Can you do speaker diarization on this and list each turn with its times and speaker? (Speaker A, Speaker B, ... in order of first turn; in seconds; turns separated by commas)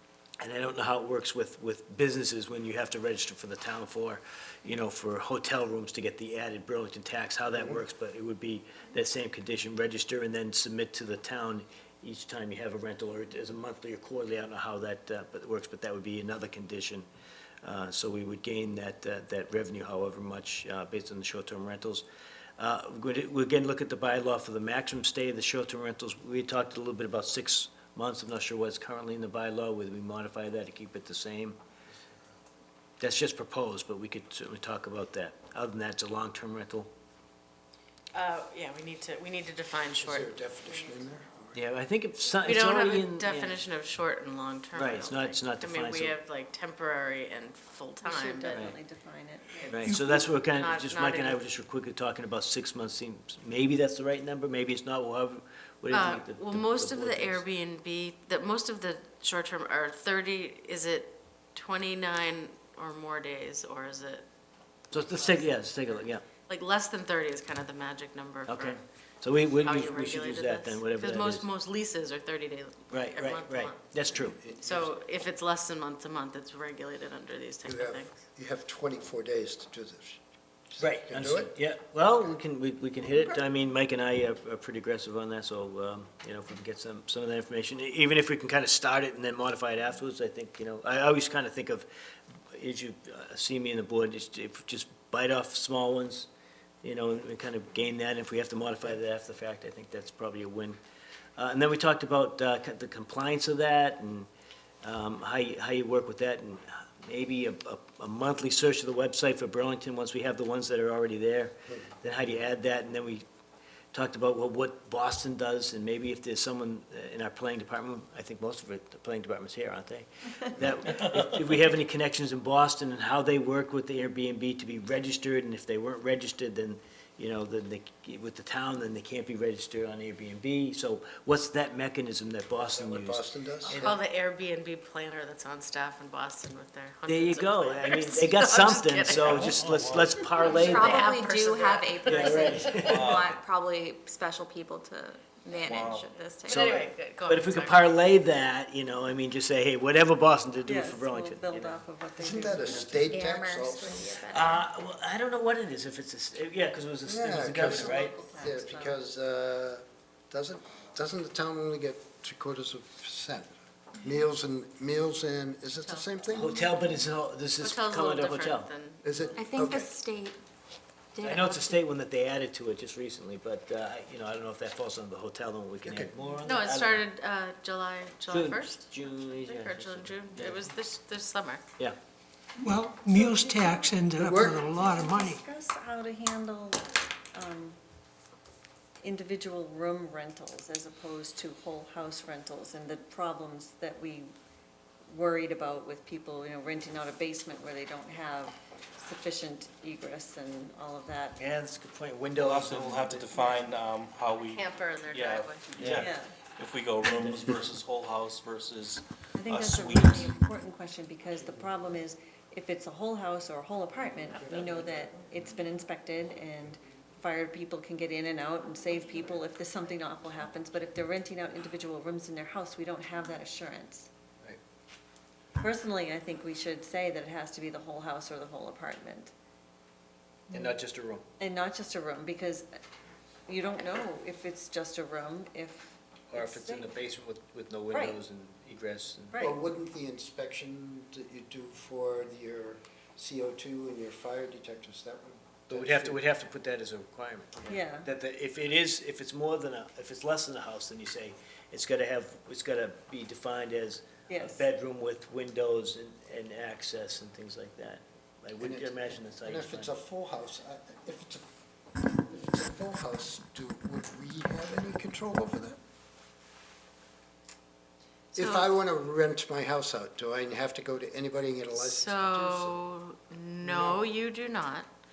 Speaker A: 0.4-17.1, Speaker A: 17.6-22.0, Speaker A: 22.6-31.6, Speaker A: 33.0-36.9, Speaker B: 38.1-41.0, Speaker C: 40.0-41.6, Speaker A: 41.5-43.6, Speaker B: 42.4-48.7, Speaker A: 44.7-46.1, Speaker D: 48.0-49.8, Speaker A: 48.5-48.8, Speaker A: 49.6-57.4, Speaker E: 49.8-50.2, Speaker B: 50.5-51.4, Speaker B: 55.9-64.2, Speaker B: 64.9-65.8, Speaker A: 64.9-66.2, Speaker B: 66.5-68.8, Speaker A: 68.5-71.5, Speaker B: 69.5-78.2, Speaker A: 72.9-74.4, Speaker C: 74.1-75.0, Speaker C: 77.6-80.2, Speaker C: 80.7-81.5, Speaker A: 80.8-91.9, Speaker A: 92.5-96.3, Speaker A: 96.8-100.8, Speaker A: 101.4-104.3, Speaker A: 104.8-113.2, Speaker A: 113.9-133.9, Speaker C: 132.6-134.0, Speaker B: 133.7-142.9, Speaker A: 137.1-141.1, Speaker F: 139.1-140.2, Speaker G: 140.4-146.8, Speaker A: 142.0-143.3, Speaker F: 142.7-143.4, Speaker F: 145.5-146.1, Speaker B: 146.4-148.0, Speaker A: 146.5-151.8, Speaker D: 150.6-153.1, Speaker C: 152.2-154.2, Speaker G: 153.1-154.6, Speaker A: 154.3-158.1, Speaker C: 157.1-166.6, Speaker D: 157.5-159.0, Speaker B: 165.8-166.2, Speaker A: 166.3-169.4, Speaker B: 167.6-169.0, Speaker C: 169.0-169.9, Speaker G: 169.4-170.4, Speaker G: 171.1-171.8, Speaker A: 171.2-177.0, Speaker C: 175.8-176.1, Speaker B: 176.4-181.6, Speaker A: 178.3-180.6, Speaker E: 182.6-185.4, Speaker D: 183.0-187.8, Speaker C: 184.2-184.8, Speaker D: 189.0-194.3, Speaker D: 195.1-201.4, Speaker A: 201.4-203.6, Speaker F: 202.3-210.3, Speaker B: 204.4-205.7, Speaker A: 205.8-206.1, Speaker D: 205.9-206.3, Speaker D: 209.4-224.1, Speaker D: 225.6-229.3, Speaker A: 230.5-231.2, Speaker D: 231.4-232.7, Speaker D: 233.5-236.9, Speaker A: 236.3-239.4, Speaker D: 237.9-238.2, Speaker D: 239.3-239.6, Speaker C: 239.4-246.2, Speaker A: 245.7-259.9, Speaker D: 247.7-248.1, Speaker D: 254.3-254.6, Speaker C: 258.6-261.4, Speaker C: 262.1-265.8, Speaker C: 268.3-272.8, Speaker B: 268.4-268.7, Speaker B: 271.7-274.9, Speaker C: 273.6-274.0